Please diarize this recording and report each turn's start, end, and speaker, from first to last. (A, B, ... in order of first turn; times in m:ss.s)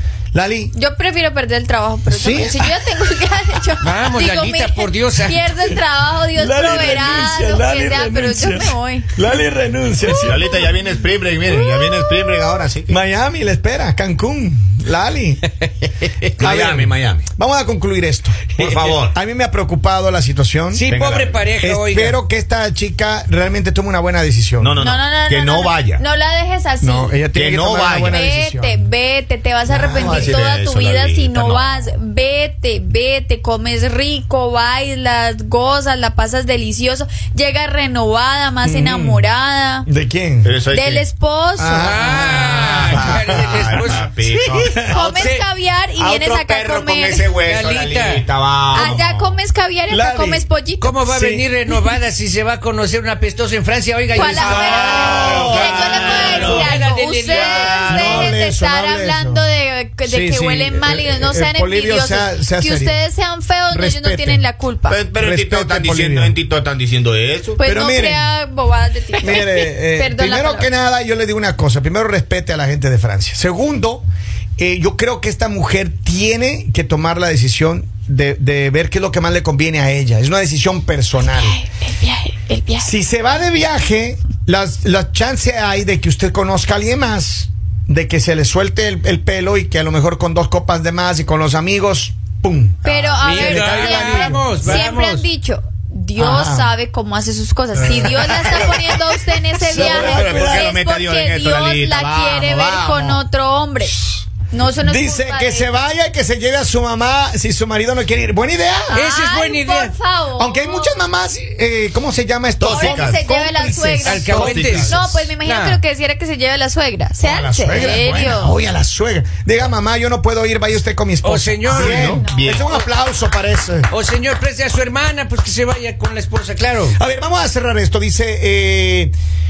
0:00.3-0:00.7 A
0:00.7-0:09.1 B
0:02.1-0:02.7 A
0:03.8-0:05.4 C
0:06.3-0:10.7 A
0:10.1-0:10.7 B
0:10.2-0:13.0 D
0:11.5-0:12.5 B
0:12.9-0:15.4 A
0:16.4-0:17.2 D
0:16.4-0:18.5 A
0:18.6-0:19.1 D
0:18.6-0:18.9 C
0:19.1-0:20.8 A
0:20.7-0:22.2 C
0:20.9-0:21.4 D
0:21.6-0:24.8 A
0:24.6-0:26.0 D
0:24.8-0:27.2 B
0:26.8-0:28.8 A
0:27.3-0:28.2 D
0:28.0-0:39.9 B
0:29.7-0:30.4 A
0:29.8-0:31.8 D
0:38.6-0:39.3 A
0:39.8-0:40.5 A
0:40.4-0:41.0 D
0:40.7-0:41.9 B
0:41.6-0:42.2 A
0:41.8-0:44.1 C
0:42.1-0:44.9 D
0:43.0-0:43.6 A
0:44.5-0:44.8 A
0:44.9-0:45.4 C
0:44.9-0:47.3 B
0:45.9-0:49.4 D
0:47.4-0:48.2 C
0:48.7-0:51.0 B
0:49.9-0:50.4 A
0:50.8-0:57.8 C
0:51.0-0:51.5 A
0:54.1-1:05.0 B
0:54.2-0:56.7 A
0:54.9-0:58.3 D
0:57.8-0:59.4 A
1:00.0-1:03.0 A
1:03.7-1:04.4 A
1:04.9-1:07.6 D
1:05.1-1:06.3 A
1:07.6-1:10.7 B
1:07.6-1:08.3 A
1:09.2-1:14.0 A
1:14.6-1:21.6 A
1:21.2-1:22.9 B
1:22.8-1:34.7 A
1:32.8-1:34.4 D
1:32.8-1:45.8 B
1:33.2-1:35.2 C
1:36.2-1:36.7 A
1:37.8-1:40.7 A
1:39.7-1:43.2 D
1:44.8-1:49.0 A
1:48.9-1:51.0 B
1:48.9-1:49.9 C
1:50.4-1:55.1 A
1:52.6-1:53.2 D
1:52.7-1:58.6 B
1:54.0-1:55.8 C
1:54.3-1:55.1 D
1:57.2-2:03.9 A
2:01.2-2:02.0 C
2:01.7-2:02.7 D
2:01.9-2:02.6 B
2:03.9-2:07.0 C
2:06.9-2:09.1 A